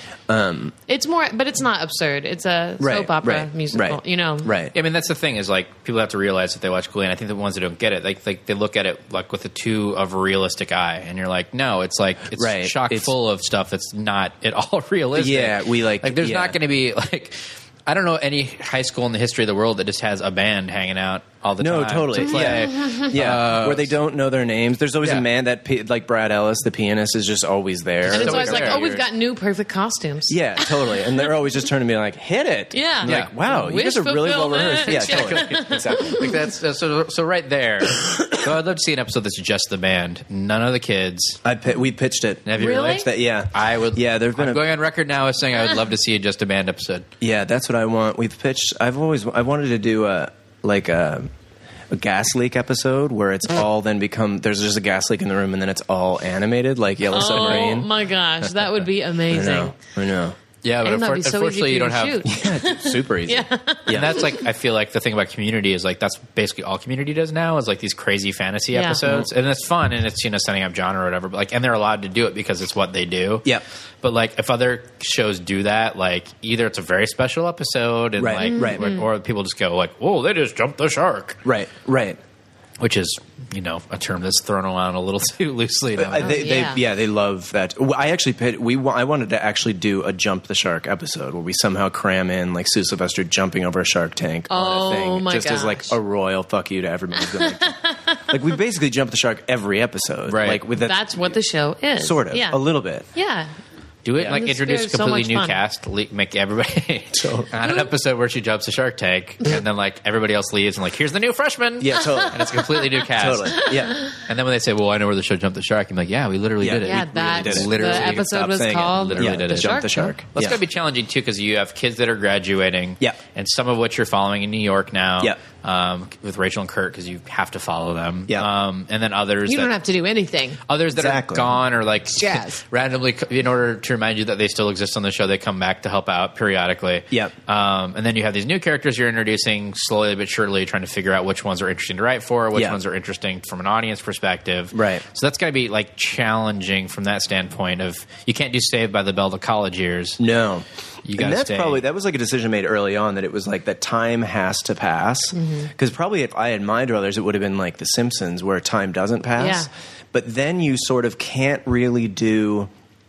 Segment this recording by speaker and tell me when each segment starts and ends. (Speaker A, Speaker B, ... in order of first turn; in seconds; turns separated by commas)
Speaker A: 0.3-0.7, Speaker B: 0.9-4.5, Speaker A: 2.8-4.7, Speaker C: 4.7-23.9, Speaker A: 12.3-13.1, Speaker A: 15.1-16.6, Speaker A: 21.6-28.8, Speaker B: 22.5-23.1, Speaker C: 28.1-29.0, Speaker B: 28.1-31.1, Speaker A: 30.3-36.2, Speaker B: 32.7-36.3, Speaker C: 33.0-33.3, Speaker C: 34.9-41.4, Speaker A: 41.4-44.6, Speaker C: 42.5-47.1, Speaker B: 42.6-43.1, Speaker A: 47.2-51.3, Speaker A: 51.9-57.9, Speaker B: 57.1-59.7, Speaker A: 59.3-60.4, Speaker C: 60.6-62.2, Speaker B: 60.8-64.4, Speaker A: 62.2-64.2, Speaker C: 63.9-73.5, Speaker B: 68.7-69.0, Speaker A: 69.0-69.3, Speaker C: 74.0-81.4, Speaker A: 78.2-78.8, Speaker B: 78.4-79.0, Speaker A: 81.4-82.2, Speaker C: 82.8-86.5, Speaker A: 86.0-101.0, Speaker B: 86.2-86.8, Speaker B: 94.5-96.0, Speaker B: 97.6-98.3, Speaker C: 100.3-100.6, Speaker B: 100.8-102.6, Speaker A: 102.0-103.0, Speaker B: 103.1-103.5, Speaker C: 104.0-129.7, Speaker B: 104.2-105.6, Speaker A: 107.1-107.5, Speaker A: 111.8-114.0, Speaker A: 116.6-120.6, Speaker B: 116.8-120.1, Speaker B: 129.4-130.6, Speaker C: 130.7-150.2, Speaker A: 130.9-131.6, Speaker B: 132.2-132.6, Speaker A: 142.5-142.8, Speaker A: 144.7-145.0, Speaker A: 150.2-162.7, Speaker C: 151.0-151.8, Speaker B: 155.3-155.7, Speaker B: 159.4-159.7